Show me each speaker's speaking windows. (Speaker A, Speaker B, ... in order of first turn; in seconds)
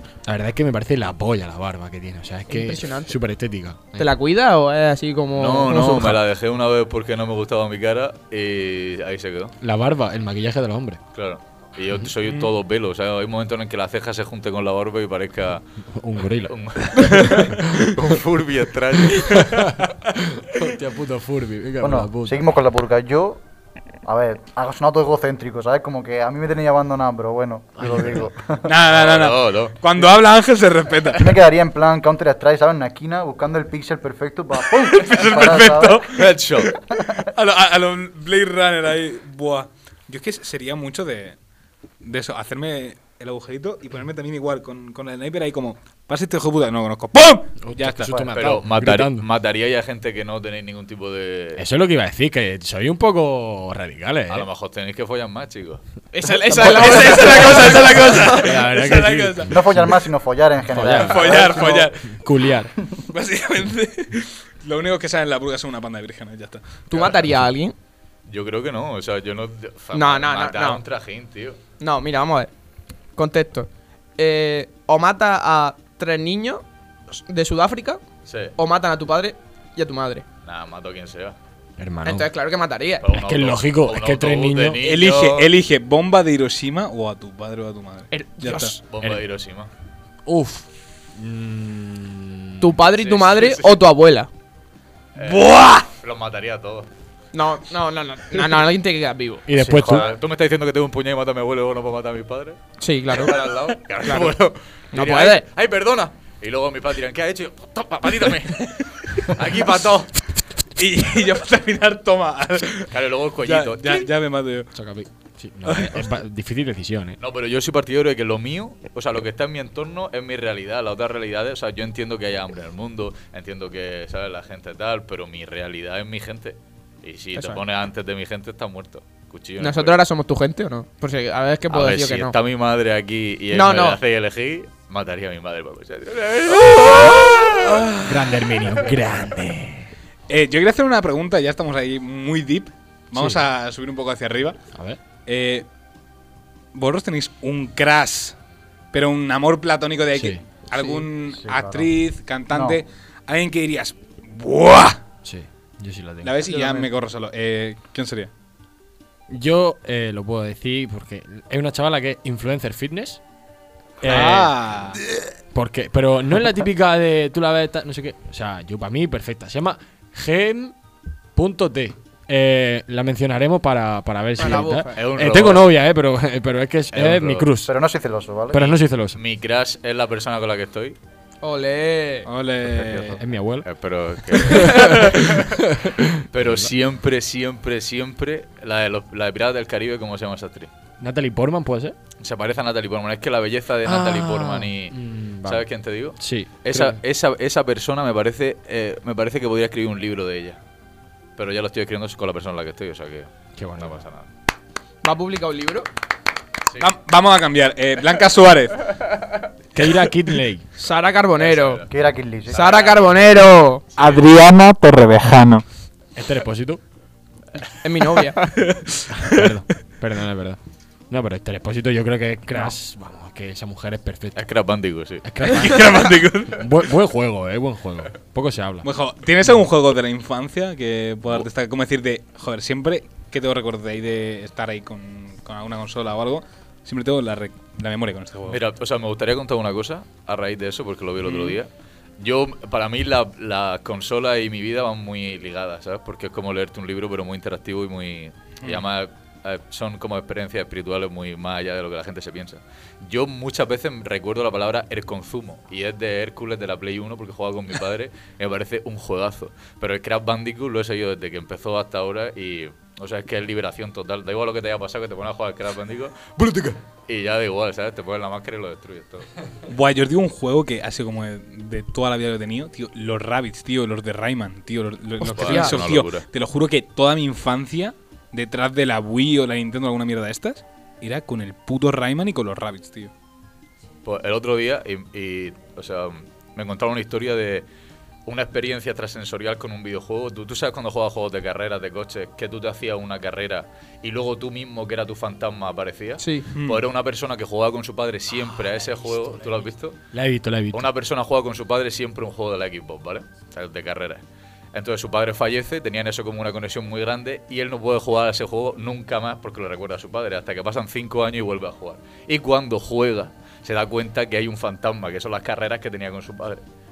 Speaker A: 0.2-4.0, 9.6-11.0, 15.9-16.5, 17.4-17.7, 19.2-22.5, 27.8-28.2, 47.6-49.3, 51.6-54.5, 57.2-60.0, 60.7-62.7, 81.8-82.3, 83.1-84.8, 90.3-92.7, 99.5-100.1, 114.7-117.2, 138.0-139.9, 143.2-143.4, 144.7-145.0, 150.1-150.4, 155.2-156.3, 159.3-163.2, 164.0-164.5, 165.5-170.7, 171.4-177.7, 178.5-179.2, 183.0-183.7, 184.3-186.7, 191.0-191.9, 193.9-195.7, 196.2-197.0, 203.6-204.0, 209.8-210.7, 216.2-216.8, 219.1-220.6, 221.1-224.4, 225.2-226.0, 226.5-228.9, 300.1-300.9
Speaker B: 2.5-3.2, 4.0-6.2, 56.1-58.6, 66.9-67.7, 69.9-70.8, 71.8-72.5, 73.2-78.0, 78.6-80.2, 82.0-83.1, 88.1-88.8, 92.6-94.3, 97.3-99.5, 102.8-104.3, 104.9-105.4, 127.3-127.6, 129.6-132.3, 133.5-134.0, 150.7-151.1, 156.4-156.9, 174.4-175.0, 181.4-182.3, 205.0-205.9, 210.8-211.8, 212.5-213.8, 217.8-218.6, 275.4-275.9, 296.2-296.5
Speaker C: 5.3-9.5, 11.1-15.6, 16.5-19.7, 28.9-30.1, 36.1-36.7, 48.3-51.6, 54.3-55.8, 56.6-57.0, 68.3-71.6, 78.2-78.5, 80.4-81.3, 83.0-85.5, 88.9-89.7, 93.0-93.8, 95.2-96.9, 99.8-110.2, 112.9-114.1, 117.2-130.0, 131.7-137.9, 174.9-175.7, 176.9-177.5, 178.5-181.0, 183.6-185.6, 186.3-190.7, 192.2-200.6, 201.4-204.3, 209.0-209.5, 211.4-213.3, 213.9-214.3, 224.3-226.1, 238.5-269.3, 275.2-276.2, 284.0-287.7, 288.3-300.0, 300.7-304.2, 304.7-316.6
Speaker D: 21.8-23.4, 24.1-28.7, 31.2-36.1, 59.5-61.8, 99.6-100.1, 151.3-151.9, 152.5-152.8, 177.7-178.6, 211.9-212.6
Speaker E: 28.7-31.4, 34.7-36.8, 37.4-41.4, 42.0-48.2, 56.7-59.5, 61.0-62.1, 63.1-66.7, 84.8-88.7, 95.2-95.8, 110.8-114.7, 115.7-116.0, 140.3-144.6, 145.2-145.7, 146.7-148.4, 148.9-155.0, 156.2-158.3, 164.0-165.0, 182.2-183.2, 206.8-208.8, 214.0-215.7, 218.6-219.4, 225.4-226.6, 228.8-238.6, 241.2-241.5, 269.7-283.1